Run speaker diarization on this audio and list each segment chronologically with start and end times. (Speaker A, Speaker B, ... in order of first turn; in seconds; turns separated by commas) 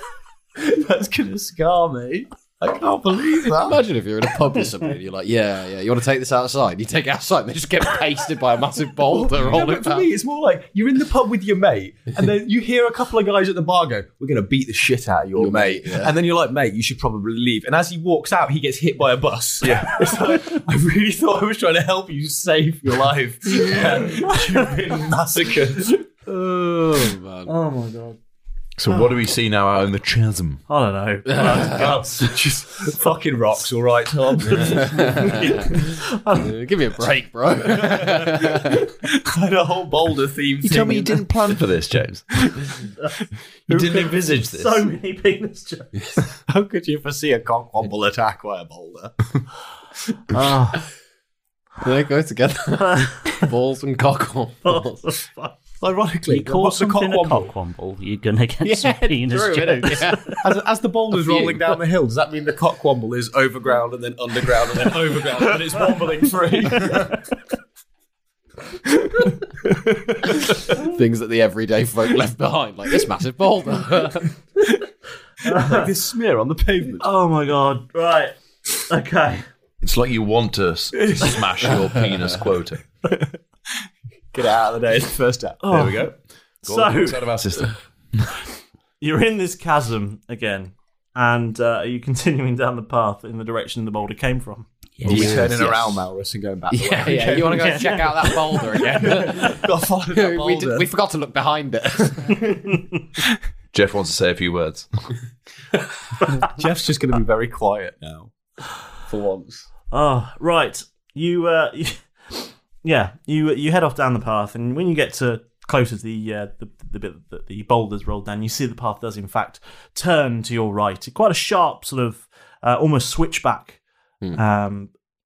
Speaker A: 0.6-3.8, Speaker B: 3.5-10.1, Speaker A: 9.1-26.1, Speaker B: 15.3-16.1, Speaker C: 19.6-20.0, Speaker D: 24.3-24.7, Speaker B: 26.3-27.5, Speaker D: 27.4-28.2, Speaker C: 28.8-30.6, Speaker D: 30.7-32.5, Speaker B: 31.4-31.7, Speaker A: 32.1-35.1, Speaker D: 34.4-36.6, Speaker B: 34.6-35.6, Speaker B: 36.4-38.8, Speaker A: 37.7-41.6, Speaker C: 40.6-42.4, Speaker C: 43.7-44.9, Speaker A: 43.7-44.2, Speaker D: 44.2-46.2, Speaker A: 46.5-49.2, Speaker D: 50.3-50.8, Speaker B: 51.8-55.0, Speaker D: 52.8-53.4, Speaker D: 54.6-55.5, Speaker A: 55.8-57.5, Speaker E: 56.3-60.0, Speaker B: 58.6-60.4, Speaker A: 60.4-67.2, Speaker B: 61.2-61.7, Speaker B: 70.7-74.3, Speaker A: 75.4-77.1, Speaker D: 75.5-75.9, Speaker D: 77.0-79.5, Speaker C: 79.8-82.8, Speaker A: 80.9-81.4, Speaker A: 83.1-83.4, Speaker A: 84.3-85.9, Speaker D: 85.6-87.3, Speaker C: 85.7-87.8, Speaker D: 89.0-94.7, Speaker B: 95.0-96.0, Speaker A: 95.0-100.9, Speaker C: 95.0-95.4, Speaker B: 96.7-102.5, Speaker C: 103.7-104.9, Speaker A: 106.5-108.3, Speaker A: 109.0-109.7, Speaker D: 109.9-123.8, Speaker D: 124.3-124.9